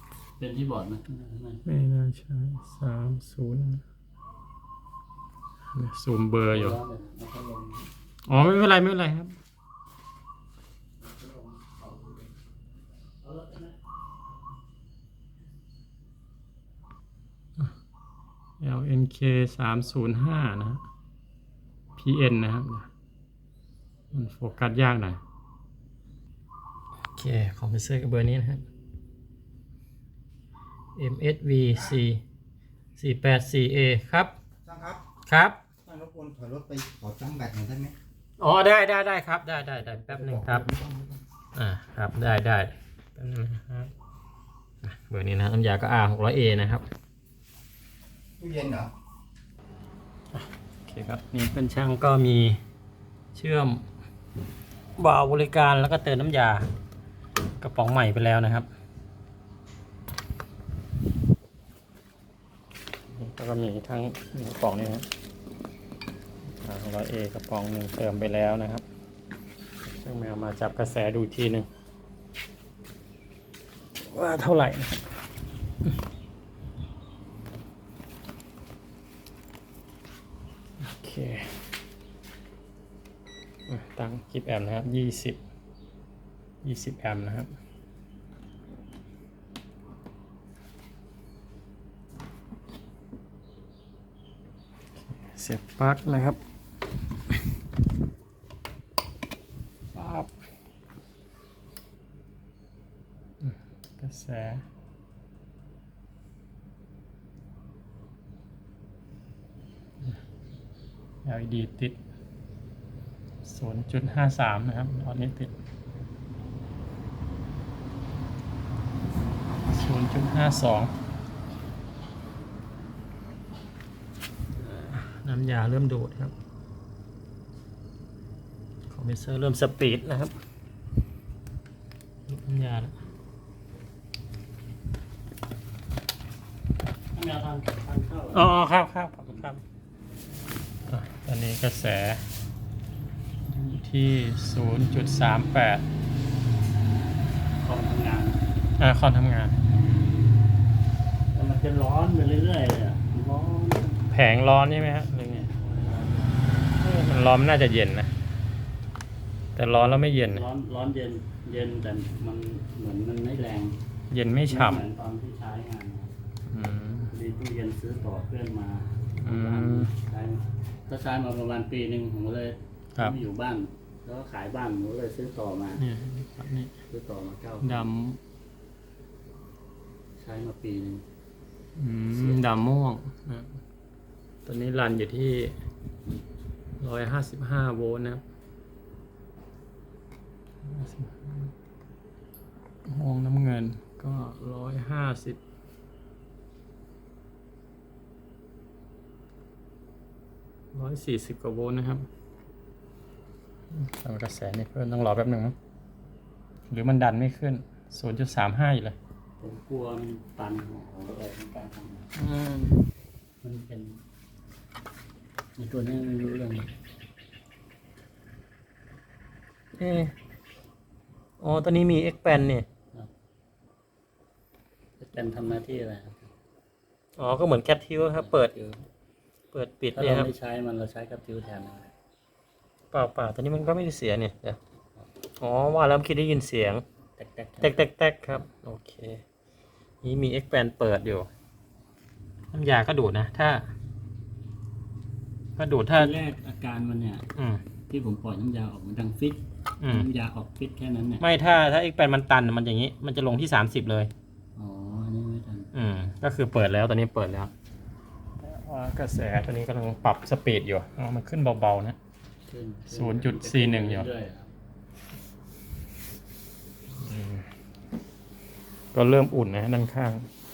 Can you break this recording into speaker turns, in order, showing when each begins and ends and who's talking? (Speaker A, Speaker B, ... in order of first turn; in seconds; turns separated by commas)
Speaker A: 0.4-1.6, Speaker B: 1.6-3.8, Speaker B: 5.7-6.8, Speaker A: 6.5-7.9, Speaker B: 8.3-9.3, Speaker A: 11.2-12.2, Speaker A: 13.2-13.7, Speaker B: 18.6-20.8, Speaker B: 22.0-22.9, Speaker B: 24.1-25.2, Speaker B: 27.2-28.6, Speaker B: 31.0-32.2, Speaker B: 33.0-34.3, Speaker C: 34.7-35.0, Speaker B: 35.2-35.6, Speaker C: 35.9-37.9, Speaker B: 38.4-40.8, Speaker B: 41.5-43.9, Speaker B: 44.8-46.9, Speaker C: 48.4-48.9, Speaker B: 50.3-52.6, Speaker B: 53.3-53.9, Speaker B: 55.0-56.7, Speaker B: 57.6-58.7, Speaker B: 63.1-65.1, Speaker B: 66.6-68.8, Speaker B: 70.0-71.7, Speaker B: 74.0-75.0, Speaker B: 80.8-81.7, Speaker B: 83.7-85.4, Speaker B: 86.6-87.5, Speaker B: 95.1-96.4, Speaker B: 99.9-100.3, Speaker B: 103.4-104.6, Speaker B: 111.2-112.0, Speaker B: 113.4-115.5, Speaker B: 119.7-120.9, Speaker B: 124.7-126.3, Speaker B: 128.9-130.3, Speaker B: 132.3-132.9, Speaker A: 137.2-138.5, Speaker B: 138.3-139.6, Speaker B: 140.9-142.2, Speaker B: 143.5-145.8, Speaker A: 147.6-148.4, Speaker B: 148.8-149.6, Speaker A: 151.3-154.1, Speaker B: 154.1-155.5, Speaker A: 155.3-156.4, Speaker B: 156.8-158.1, Speaker B: 159.6-160.4, Speaker A: 159.9-163.8, Speaker B: 164.1-164.8, Speaker A: 164.5-166.1, Speaker B: 166.5-167.1, Speaker A: 167.1-175.8, Speaker B: 169.2-169.9, Speaker B: 175.8-176.7, Speaker A: 176.9-177.9, Speaker B: 177.6-178.2, Speaker A: 180.2-181.1, Speaker B: 181.8-183.5, Speaker B: 184.5-185.6, Speaker B: 186.8-188.2, Speaker B: 190.7-191.5, Speaker B: 192.8-195.4, Speaker B: 200.7-202.1, Speaker B: 203.7-205.6, Speaker B: 206.7-209.0, Speaker A: 209.4-212.1, Speaker B: 212.2-212.8, Speaker A: 213.4-214.0, Speaker A: 215.6-216.7, Speaker B: 219.8-220.1, Speaker B: 221.4-222.7, Speaker A: 225.0-226.3, Speaker B: 227.2-228.5, Speaker A: 228.2-228.8, Speaker B: 229.5-230.3, Speaker A: 229.9-231.9, Speaker B: 232.9-234.6, Speaker B: 235.4-236.8, Speaker A: 237.2-237.9, Speaker B: 237.6-239.2, Speaker B: 240.0-241.3, Speaker B: 242.5-243.7, Speaker B: 245.6-246.1, Speaker A: 245.9-247.2, Speaker B: 247.4-247.6, Speaker A: 247.9-251.2, Speaker B: 249.8-250.1, Speaker B: 251.2-254.1, Speaker A: 254.6-255.7, Speaker B: 255.7-257.5, Speaker B: 258.4-262.0, Speaker A: 262.5-264.5, Speaker B: 262.9-264.1, Speaker B: 267.0-267.5, Speaker B: 268.9-270.3